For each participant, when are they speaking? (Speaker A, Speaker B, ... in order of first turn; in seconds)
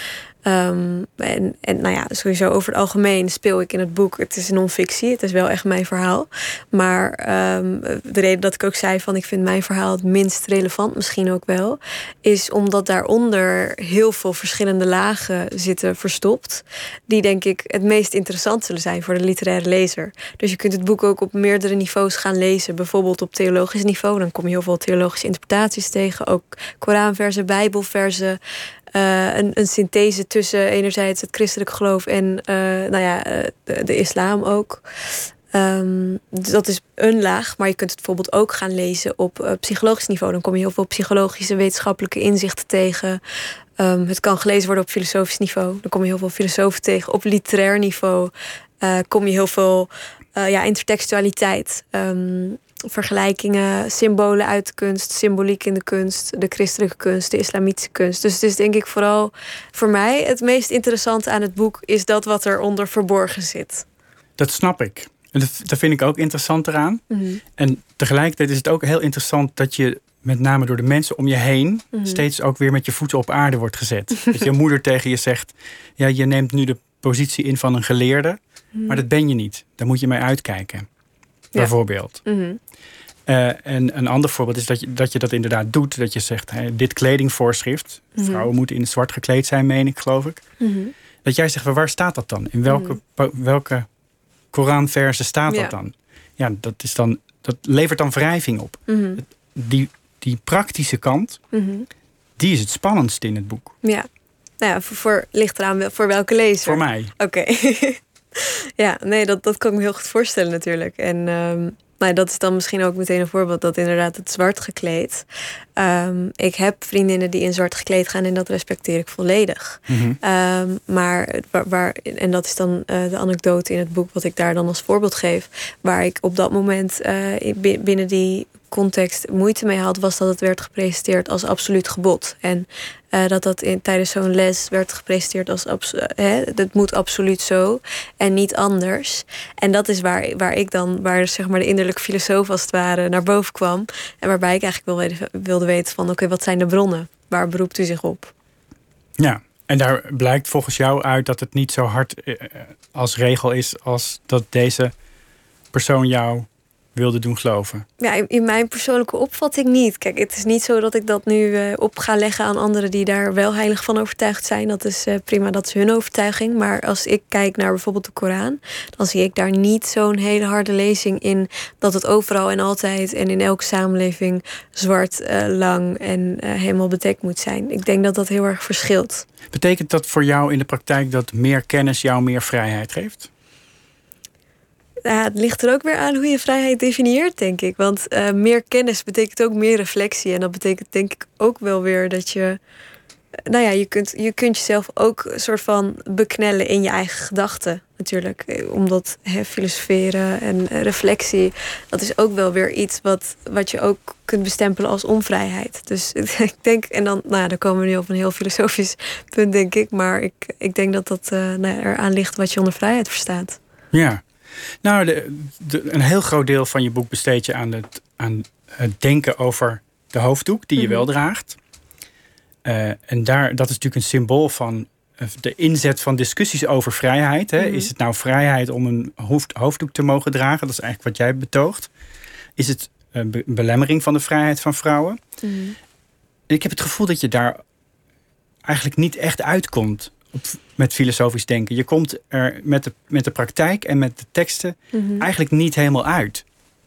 Speaker A: 0.5-28.4, 28.9-34.8, 35.5-43.2, 43.8-63.9, 67.1-67.4, 71.9-72.2, 78.8-79.0, 82.2-82.6, 88.2-88.5, 90.6-90.9, 92.7-93.0, 95.5-95.7, 98.9-99.2, 101.5-101.9, 104.6-115.2, 115.8-148.3, 158.0-179.3, 185.1-192.6, 193.5-213.6, 220.8-221.1, 227.6-227.9, 235.4-235.8, 244.9-245.2
Speaker B: 64.4-67.0, 67.6-80.9, 81.6-82.2, 83.3-90.5, 91.2-93.9, 94.5-98.8, 99.5-101.4, 102.4-103.8, 106.7-107.1, 119.9-120.2, 149.2-154.9, 155.7-157.8, 179.5-183.3, 213.9-214.2, 214.8-221.6, 222.7-231.9, 232.6-235.2, 236.5-237.6, 238.7-246.4